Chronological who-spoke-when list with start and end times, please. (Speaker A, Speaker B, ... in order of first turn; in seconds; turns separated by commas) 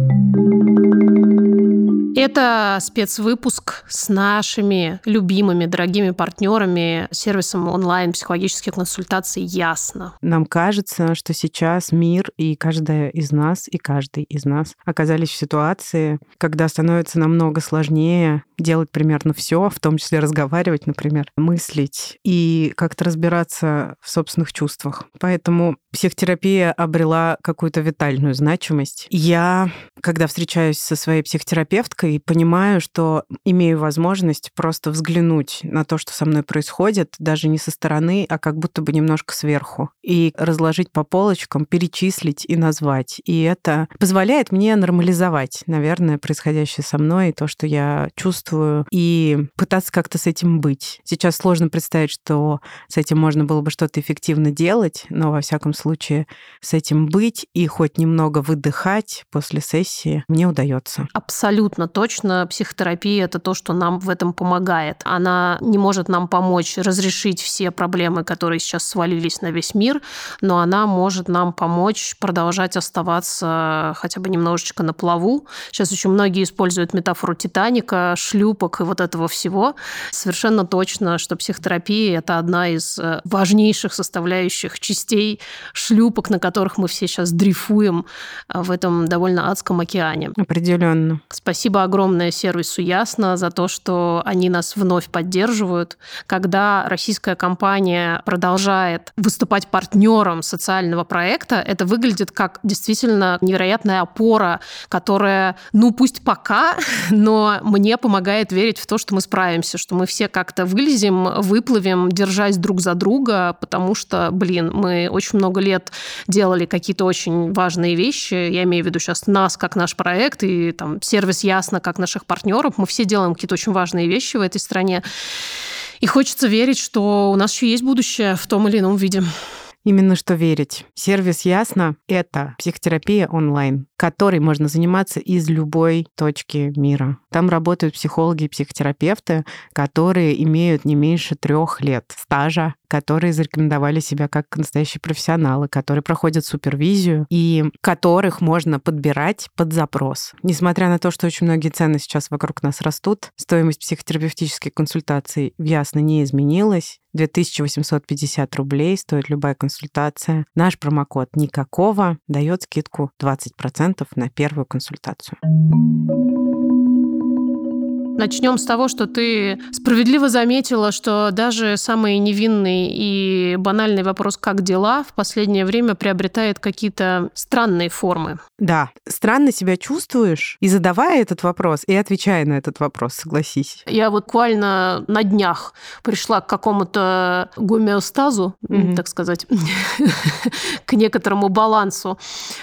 Speaker A: 2.1-10.1, Speaker B: 10.2-61.1, Speaker A: 61.1-90.3, Speaker B: 90.3-91.2, Speaker A: 91.3-125.0, Speaker A: 126.0-129.3, Speaker B: 129.8-165.4, Speaker A: 168.2-178.4, Speaker B: 178.6-183.8, Speaker A: 183.9-192.2, Speaker B: 188.7-189.0